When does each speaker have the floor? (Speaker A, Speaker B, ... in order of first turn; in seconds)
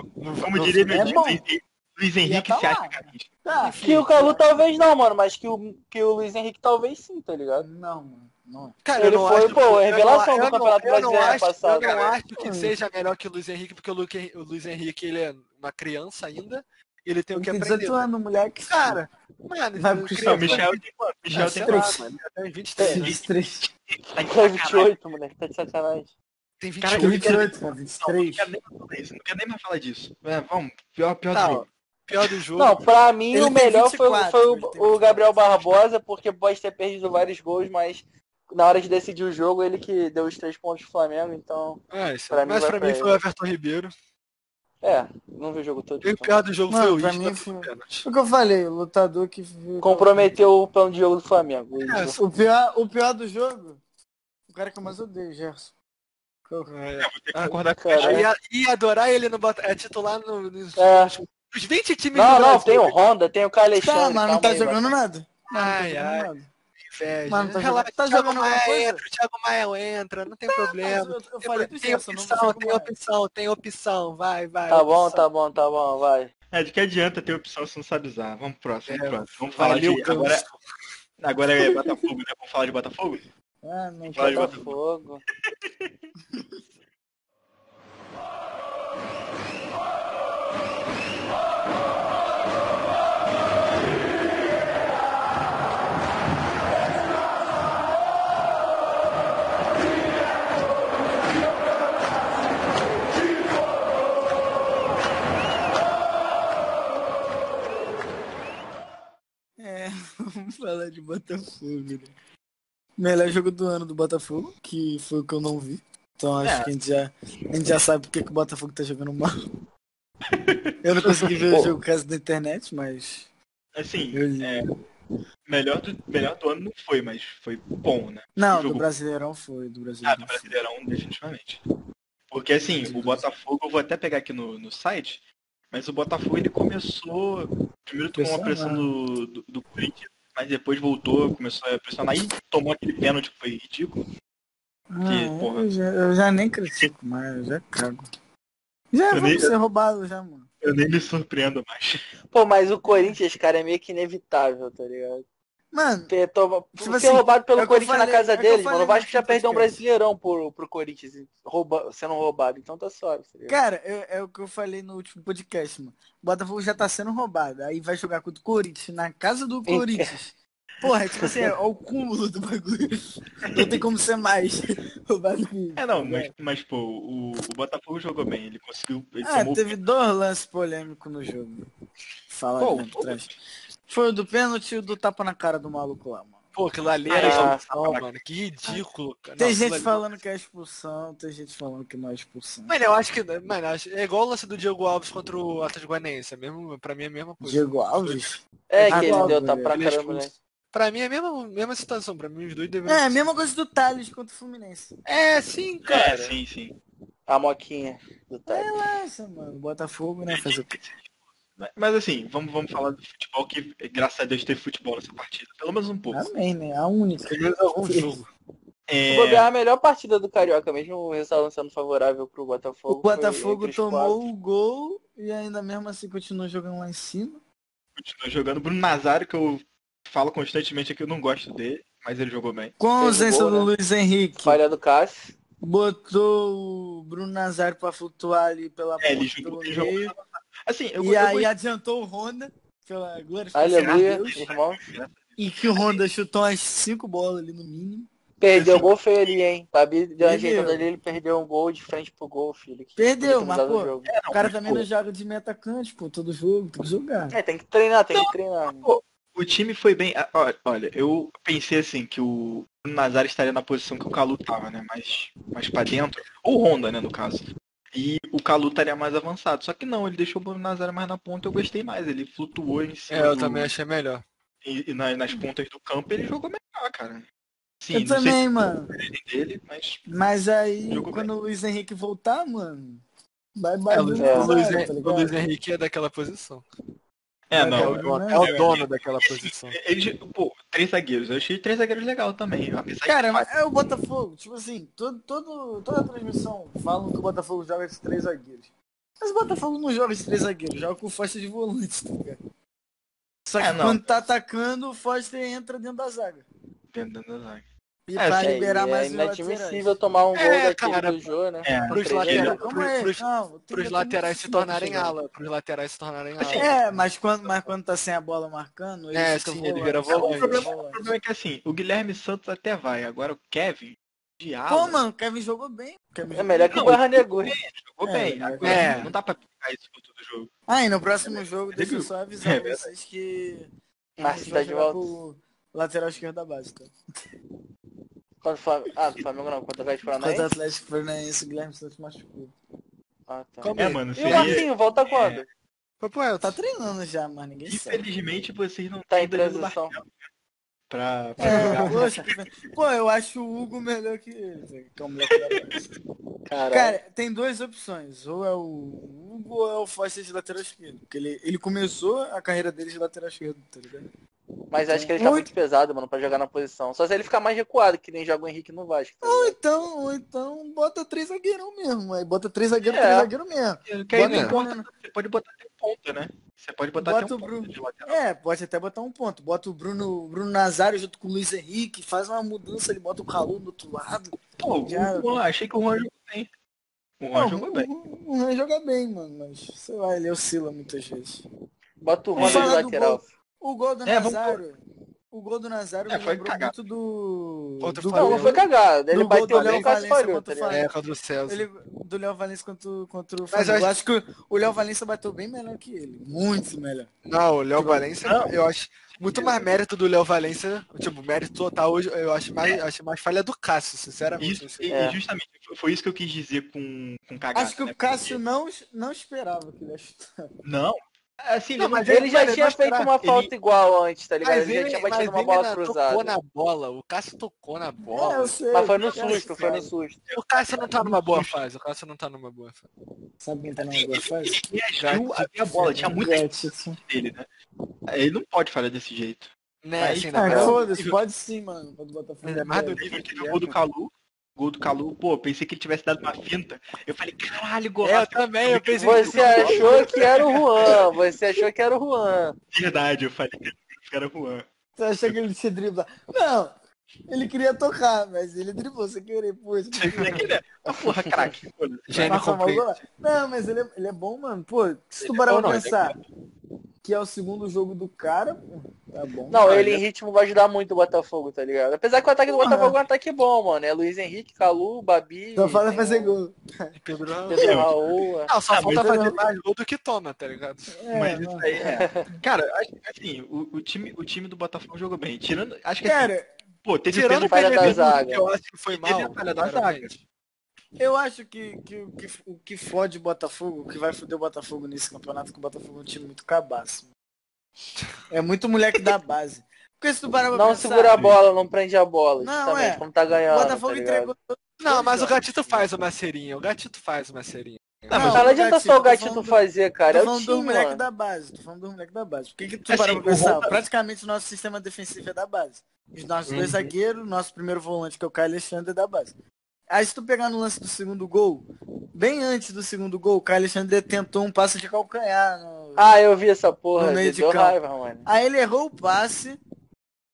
Speaker A: 0.2-1.2, 3.6-4.4, 8.8-18.1, 18.7-23.2, 26.6-27.5, 31.3-32.8, 41.9-43.9, 46.0-48.0, 51.8-52.2, 56.7-63.0, 65.5-66.3, 66.8-75.3, 78.9-80.6, 186.6-190.0, 192.7-198.2, 198.8-203.2, 205.1-206.4, 217.3-218.3, 273.1-274.2, 284.0-286.6, 287.7-289.8, 310.4-311.3, 311.9-316.7, 319.1-320.7, 328.6-329.1, 343.6-344.6, 346.0-346.6, 351.4-352.0, 374.2-374.6, 397.8-398.7, 399.5-399.9, 400.7-401.7, 403.5-403.9, 407.3-414.9, 421.8-423.4, 424.4-428.6, 430.3-432.9, 435.0-436.1, 439.8-441.2, 442.4-443.6, 448.0-450.5, 460.1-460.5, 462.1-463.0, 465.2-466.0, 469.7-470.0, 476.9-477.9, 478.5-481.1, 487.1-490.2, 504.8-508.5, 516.5-516.9
Speaker B: 0.4-3.3, 11.2-12.2, 20.2-21.9, 22.9-24.9, 26.8-27.5, 28.0-31.7, 57.0-58.3, 76.5-80.5, 81.2-83.2, 84.1-84.8, 85.6-85.9, 116.4-116.7, 120.3-121.7, 123.8-124.7, 125.5-128.8, 130.0-131.6, 132.3-144.0, 145.1-145.7, 149.1-149.6, 150.6-152.1, 173.4-173.8, 175.8-179.8, 182.6-183.3, 187.1-188.0, 205.8-206.8, 210.3-216.3, 218.9-219.5, 228.0-232.8, 239.0-241.5, 243.7-246.0, 248.6-249.3, 254.1-254.9, 258.1-273.7, 274.6-277.3, 277.8-278.4, 278.9-280.1, 280.9-281.3, 284.0-284.3, 287.5-293.5, 303.6-304.3, 306.9-308.6, 311.6-312.6, 316.4-316.8, 320.1-325.0, 326.7-330.5, 331.3-332.9, 343.8-345.5, 347.7-350.1, 350.9-352.4, 355.3-355.8, 373.9-378.2, 384.6-386.5, 387.2-387.9, 392.4-392.8, 394.1-394.6, 396.1-396.8, 408.2-408.5, 409.2-409.7, 414.4-418.4, 420.6-422.4, 429.0-429.4, 430.3-431.6, 433.8-437.5, 438.1-440.8, 443.0-451.0, 452.7-454.7, 459.9-462.4, 478.7-479.1, 481.1-486.3, 486.8-488.1, 488.9-490.2, 501.1-501.4, 504.9-505.3, 508.1-508.5, 512.9-513.8
Speaker C: 0.9-1.4, 2.2-4.4, 7.6-8.8, 12.4-12.8, 17.4-19.0, 19.8-20.7, 21.3-22.1, 22.8-23.7, 27.0-28.5, 33.3-35.7, 46.7-50.3, 52.2-53.8, 54.5-55.7, 56.5-56.7, 63.8-66.5, 67.3-69.1, 70.5-72.9, 83.6-84.7, 109.6-112.1, 113.0-119.3, 120.8-123.3, 124.1-124.8, 128.4-130.6, 132.8-133.2, 138.2-138.9, 144.9-148.1, 148.9-150.5, 155.7-156.1, 156.8-159.8, 163.5-176.3, 179.2-181.7, 182.3-183.4, 183.9-186.5, 189.4-192.8, 197.4-199.8, 202.9-205.0, 208.5-210.8, 216.1-218.2, 222.9-227.4, 232.8-234.6, 235.6-240.2, 241.0-244.4, 245.4-248.1, 250.2-250.9, 253.0-257.4, 277.9-278.9, 280.1-283.0, 283.6-285.4, 287.6-288.7, 293.1-302.4, 303.5-306.5, 308.1-310.0, 312.3-315.2, 316.5-321.1, 324.7-327.0, 328.0-329.0, 330.7-336.9, 340.1-342.5, 346.4-348.1, 351.4-355.9, 356.6-364.1, 364.9-365.5, 369.2-374.9, 377.0-385.4, 387.4-391.4, 392.4-394.8, 395.3-400.9, 401.5-407.1, 417.6-420.4, 428.1-429.9, 433.4-434.6, 436.0-437.0, 440.4-443.1, 455.0-456.8, 457.3-460.5, 462.2-466.2, 467.0-469.7, 472.5-473.0, 475.6-476.9, 479.0-479.4, 481.0-482.1, 486.0-486.6, 491.0-497.1, 498.3-501.2, 502.4-505.4, 508.1-519.3, 519.9-526.2, 527.0-529.6
Speaker D: 3.8-7.7, 9.0-12.0, 24.3-26.1, 32.6-43.2, 44.8-46.4, 49.8-52.2, 57.8-58.3, 60.8-61.1, 62.1-64.9, 74.7-76.3, 84.1-85.2, 152.3-155.2, 156.1-163.6, 169.7-170.1, 187.1-188.0, 198.7-200.3, 207.3-208.7, 219.1-224.2, 233.0-233.7, 234.4-235.3, 243.6-244.8, 248.4-254.1, 257.3-258.9, 284.2-284.5, 308.4-312.6, 326.3-327.6, 334.2-335.1, 338.4-340.5, 343.3-345.5, 349.1-349.9, 356.5-357.0, 364.7-369.6, 372.8-373.3, 392.0-393.3, 398.1-400.8, 414.9-415.2, 422.1-426.4, 428.7-430.2, 449.0-452.6, 469.5-476.4, 477.5-478.5, 481.9-482.3, 487.4-488.5, 500.5-504.3, 508.3-511.1, 526.0-528.3